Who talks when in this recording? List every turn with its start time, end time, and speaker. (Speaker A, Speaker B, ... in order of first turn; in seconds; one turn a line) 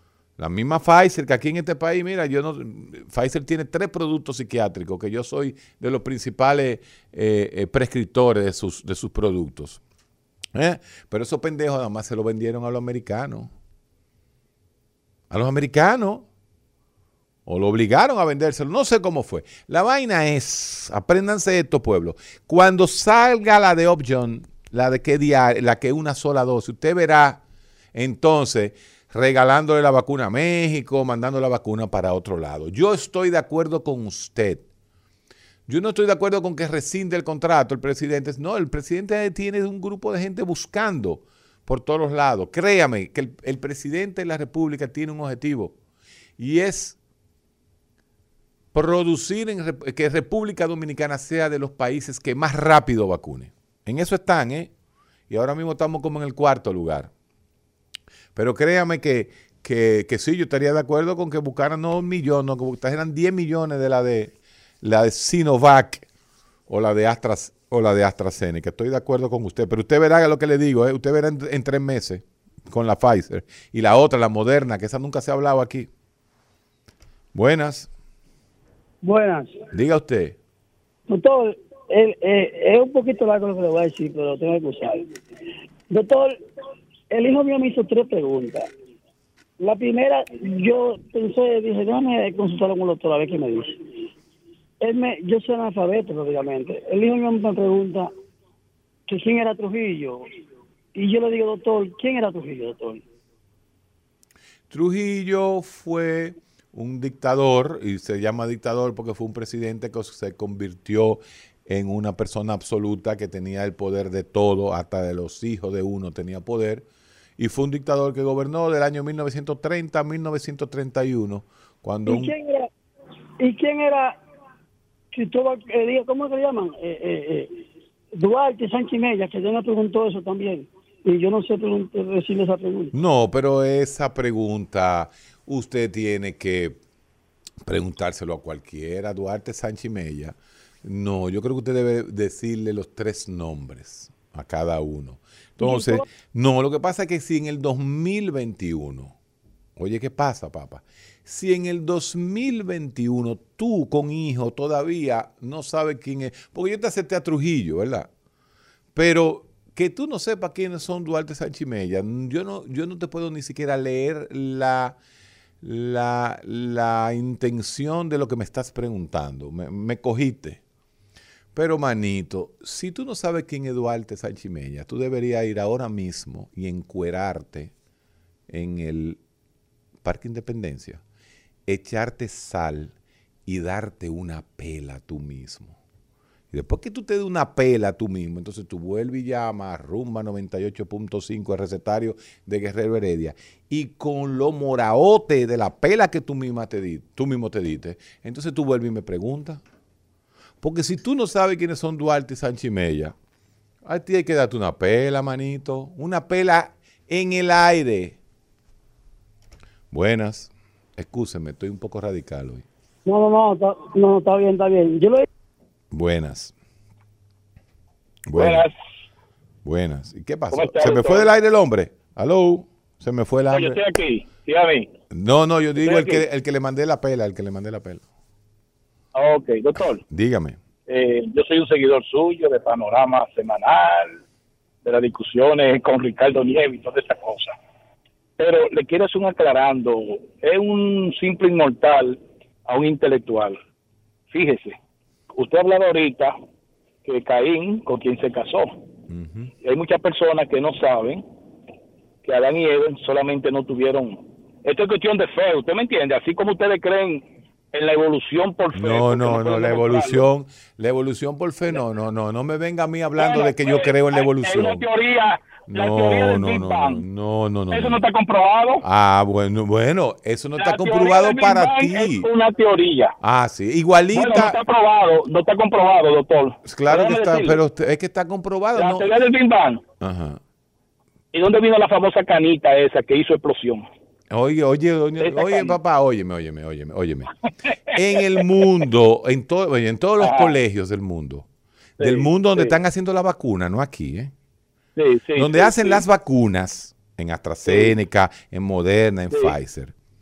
Speaker A: 0.4-9.8
Speaker A: 10.5-13.5
Speaker A: 15.3-16.2
Speaker A: 17.4-27.4
Speaker A: 27.9-34.6
Speaker A: 35.7-45.7
Speaker A: 46.4-47.0
Speaker A: 48.7-54.7
Speaker A: 55.3-57.1
Speaker A: 58.3-66.0
Speaker A: 66.7-75.9
Speaker A: 77.3-77.9
Speaker B: 79.0-79.6
Speaker A: 79.7-80.4
Speaker B: 81.1-85.1
Speaker B: 85.9-86.4
Speaker B: 87.1-88.7
Speaker B: 89.6-93.9
Speaker B: 94.8-98.1
Speaker B: 99.1-100.3
Speaker B: 100.9-103.0
Speaker A: 104.7-116.9
Speaker A: 117.4-122.3
Speaker B: 122.0-122.7
Speaker B: 123.4-124.2
Speaker B: 125.1-127.6
Speaker B: 128.2-132.9
Speaker A: 132.9-136.8
Speaker A: 137.6-149.1
Speaker B: 145.6-146.0
Speaker A: 149.8-158.1
Speaker A: 158.9-165.0
Speaker A: 165.6-170.6
Speaker A: 171.5-177.7
Speaker A: 178.5-179.2
Speaker A: 180.0-181.0
Speaker A: 181.7-182.9
Speaker A: 183.4-185.8
Speaker A: 186.5-199.6
Speaker A: 200.6-203.1
Speaker A: 203.8-208.2
Speaker A: 209.9-212.6
Speaker B: 213.1-215.2
Speaker A: 215.9-216.5
Speaker A: 218.3-218.7
Speaker C: 218.4-218.7
Speaker A: 219.6-223.8
Speaker C: 220.5-221.3
Speaker C: 223.5-224.9
Speaker A: 225.1-228.0
Speaker C: 225.8-226.2
Speaker C: 229.1-230.0
Speaker A: 230.1-230.6
Speaker C: 230.9-234.2
Speaker C: 234.8-237.6
Speaker C: 238.4-243.6
Speaker C: 244.3-244.8
Speaker C: 245.3-246.4
Speaker C: 247.0-248.7
Speaker A: 249.1-249.5
Speaker C: 249.6-251.2
Speaker C: 252.2-260.3
Speaker A: 258.7-264.8
Speaker C: 263.1-267.0
Speaker A: 265.7-268.0
Speaker C: 267.7-268.8
Speaker A: 268.8-272.3
Speaker C: 270.6-273.1
Speaker A: 273.2-274.6
Speaker C: 274.1-277.6
Speaker A: 276.6-279.1
Speaker C: 278.7-279.8
Speaker A: 280.0-280.4
Speaker C: 281.3-283.9
Speaker A: 284.3-287.3
Speaker C: 285.2-285.7
Speaker A: 287.9-291.4
Speaker C: 290.2-290.6
Speaker C: 292.0-292.8
Speaker A: 292.0-294.3
Speaker C: 294.9-296.0
Speaker A: 295.4-299.9
Speaker C: 297.6-297.9